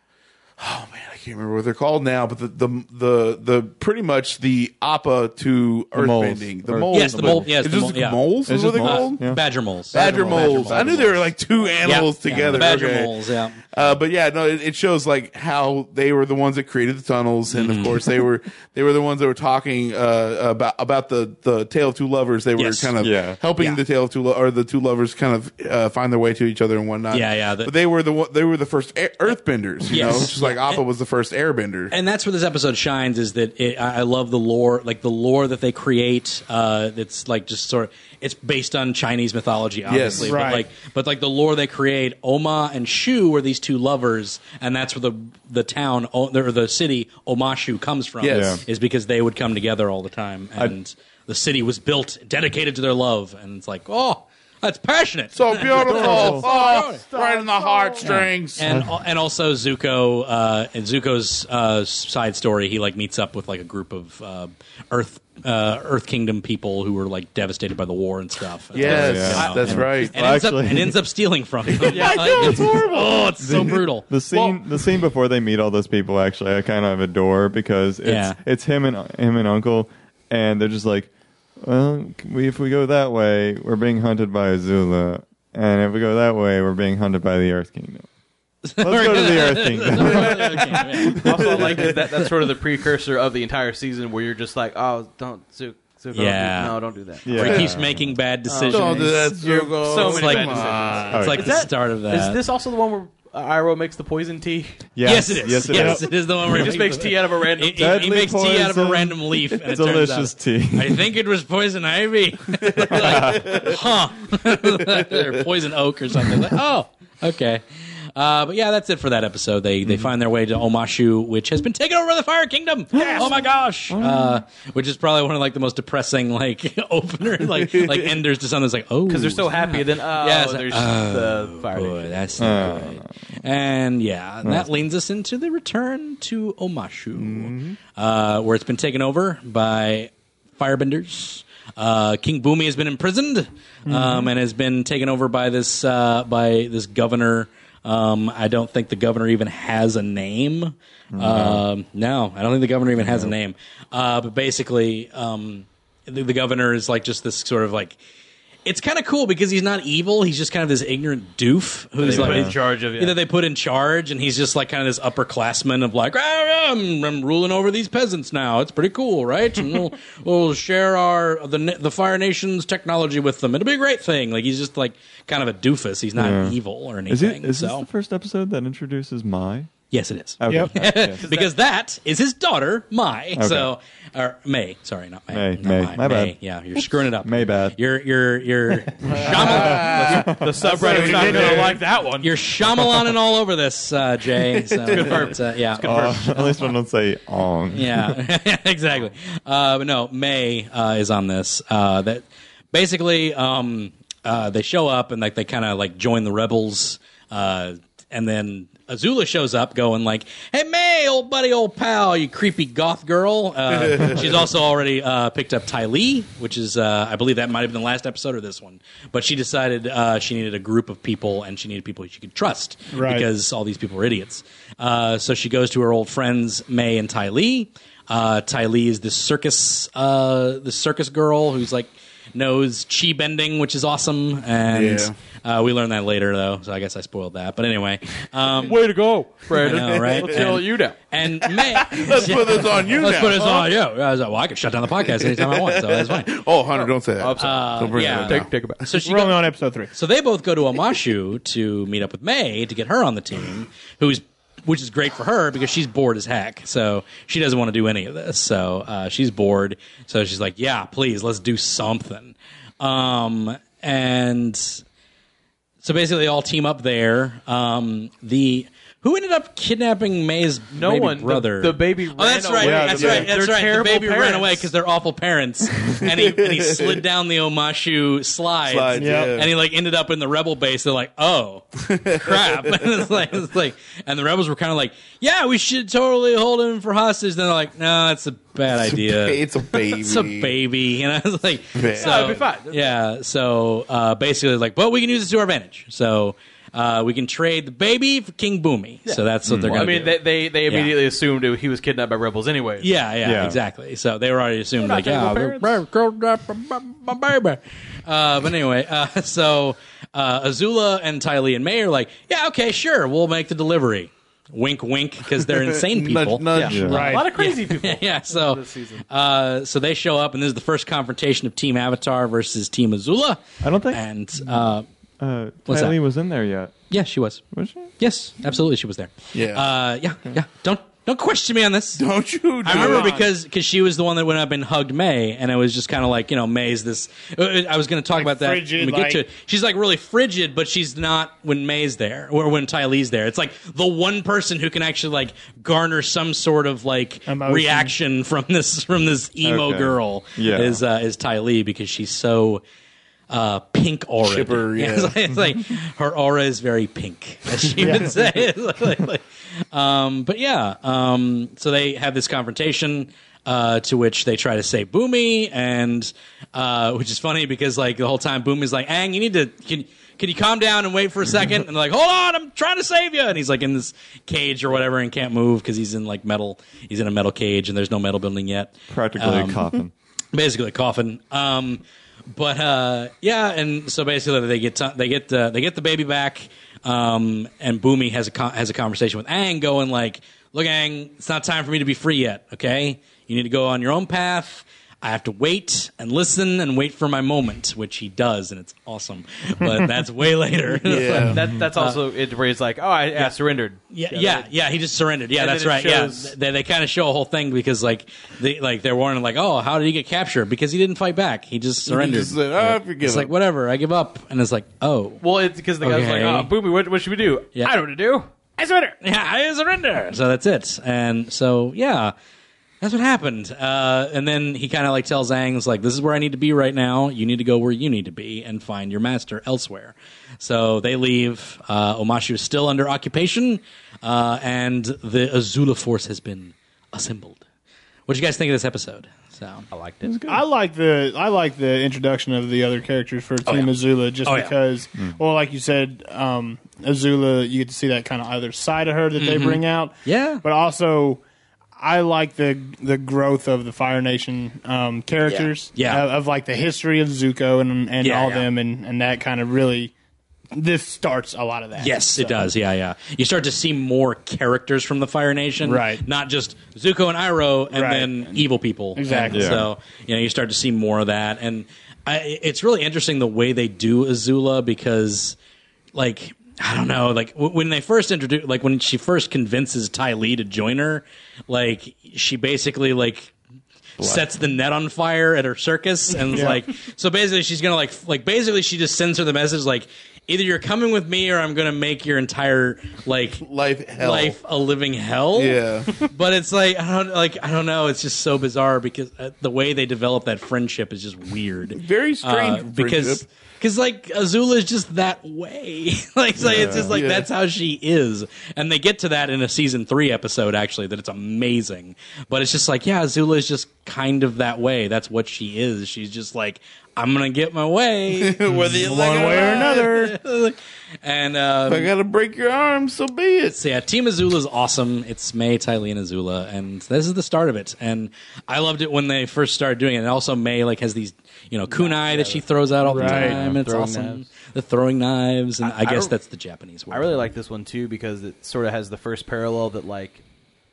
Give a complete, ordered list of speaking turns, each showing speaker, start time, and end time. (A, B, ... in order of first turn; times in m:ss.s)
0:00.6-0:09.2 A
0:05.9-0:07.5 B
0:06.9-0:11.1 C
0:08.4-0:11.3 B
0:09.9-0:13.2 A
0:11.8-0:13.6 C
0:12.3-0:12.6 B
0:13.7-0:31.9 A
0:17.5-0:18.1 C
0:22.6-0:22.9 C
0:23.0-0:23.4 B
0:23.6-0:23.8 C
0:27.1-0:27.7 C
0:29.9-0:30.8 C
0:31.9-0:57.0 C
0:39.9-0:40.5 A
0:40.2-0:40.6 D
0:48.2-0:48.6 A
0:48.2-0:48.6 B
0:55.3-0:58.7 A
0:55.8-0:58.0 D
0:58.0-1:14.0 C
1:08.7-1:10.2 A
1:08.8-1:09.5 E
1:08.8-1:11.0 B
1:11.7-1:12.8 A
1:11.8-1:13.7 E
1:13.4-1:28.1 B
1:14.3-1:14.6 E
1:18.0-1:18.4 C
1:28.6-1:32.2 C
1:28.8-1:31.9 B
1:29.9-1:37.6 E
1:36.1-1:42.4 C
1:37.2-1:38.2 B
1:37.4-1:37.7 A
1:38.5-1:44.8 E
1:38.6-1:41.2 A
1:41.1-1:41.5 B
1:45.0-1:46.7 B
1:45.0-2:38.0 C
1:45.7-1:46.0 D
1:46.4-1:48.0 E
1:47.7-1:51.1 B
1:52.7-1:53.8 A
1:52.9-1:53.6 B
1:54.8-1:55.3 A
2:02.9-2:04.4 B
2:07.5-2:08.1 A
2:09.1-2:12.8 E
2:12.4-2:13.4 B
2:14.4-2:14.7 B
2:17.2-2:17.8 A
2:23.8-2:24.3 D
2:31.1-2:31.6 B
2:33.0-2:33.3 B
2:38.6-2:57.8 C
2:42.0-2:43.2 E
2:42.0-2:42.5 B
2:56.1-2:59.7 B
2:59.9-3:10.3 C
3:00.4-3:01.2 B
3:00.5-3:00.7 D
3:01.1-3:01.5 E
3:03.4-3:03.7 B
3:05.3-3:07.8 B
3:09.1-3:10.5 B
3:09.1-3:12.3 E
3:09.2-3:11.8 A
3:10.7-3:11.8 D
3:12.2-3:16.2 C
3:14.8-3:15.2 A
3:14.9-3:16.7 E
3:15.8-3:18.2 B
3:17.7-3:58.8 C
3:33.7-3:34.4 A
3:42.9-3:43.3 D
3:54.7-3:55.1 A
3:58.6-4:01.0 E
3:59.5-4:06.4 C
4:01.9-4:03.7 A
4:05.0-4:08.5 A
4:06.7-4:08.8 E
4:07.4-4:09.4 C
4:09.0-4:09.9 D
4:09.9-4:24.8 C
4:25.8-5:00.9 C
4:30.7-4:34.7 E
4:33.0-4:33.3 A
4:35.9-4:37.0 A
4:38.7-4:39.5 A
4:38.9-4:39.3 D
4:41.8-4:43.1 A
4:48.7-4:50.5 A
4:51.7-4:52.4 A
4:51.9-4:52.9 E
4:59.1-5:02.9 E
4:59.4-4:59.8 B
5:02.8-5:24.8 C
5:03.2-5:03.6 B
5:04.8-5:05.8 E
5:15.5-5:17.1 A
5:16.5-5:19.0 E
5:16.7-5:17.1 B
5:16.8-5:17.3 D
5:23.6-5:24.6 B
5:25.2-5:26.8 B
5:25.7-5:26.0 C
5:26.9-5:27.4 C
5:27.5-5:27.9 B
5:28.0-5:32.0 C
5:29.3-5:29.7 A
5:32.0-5:33.2 A
5:32.6-5:52.6 C
5:32.7-5:33.2 D
5:38.1-5:39.2 D
5:47.3-5:47.9 D
5:49.4-5:50.8 B
5:53.3-6:19.7 C
5:54.2-5:55.2 A
5:57.8-5:58.2 D
6:18.9-6:19.9 B
6:20.3-6:42.0 C
6:40.8-6:41.4 A
6:41.1-6:44.5 E
6:43.9-6:55.2 C
6:45.3-6:46.3 E
6:51.9-6:53.3 A
6:55.2-6:58.9 E
6:55.8-6:56.5 C
6:59.0-7:02.1 C
7:02.8-7:17.4 C
7:18.1-7:19.7 C
7:19.7-7:20.2 E
7:20.0-7:20.4 B
7:20.3-7:31.2 D
7:23.4-7:24.6 C
7:29.2-7:30.4 C
7:31.8-7:39.9 D
7:35.3-7:36.0 C
7:38.0-7:38.5 C
7:40.5-7:42.5 D
7:41.8-7:55.4 C
7:45.6-7:46.0 D
7:47.7-7:48.4 D
7:48.9-7:49.7 D
7:49.3-7:49.7 B
7:55.9-8:03.3 C
8:04.0-8:13.4 C
8:06.3-8:06.6 D
8:13.4-8:14.4 A
8:14.0-8:41.9 C
8:15.3-8:16.0 A
8:21.7-8:23.2 A
8:26.4-8:27.0 B
8:26.5-8:27.3 A
8:38.1-8:39.9 A
8:38.5-8:40.2 D
8:41.7-8:43.6 A
8:43.5-8:57.2 C
8:51.7-8:54.2 E
8:52.9-8:53.4 D
8:53.0-8:53.6 B
8:55.6-8:56.1 E
8:56.9-9:00.2 E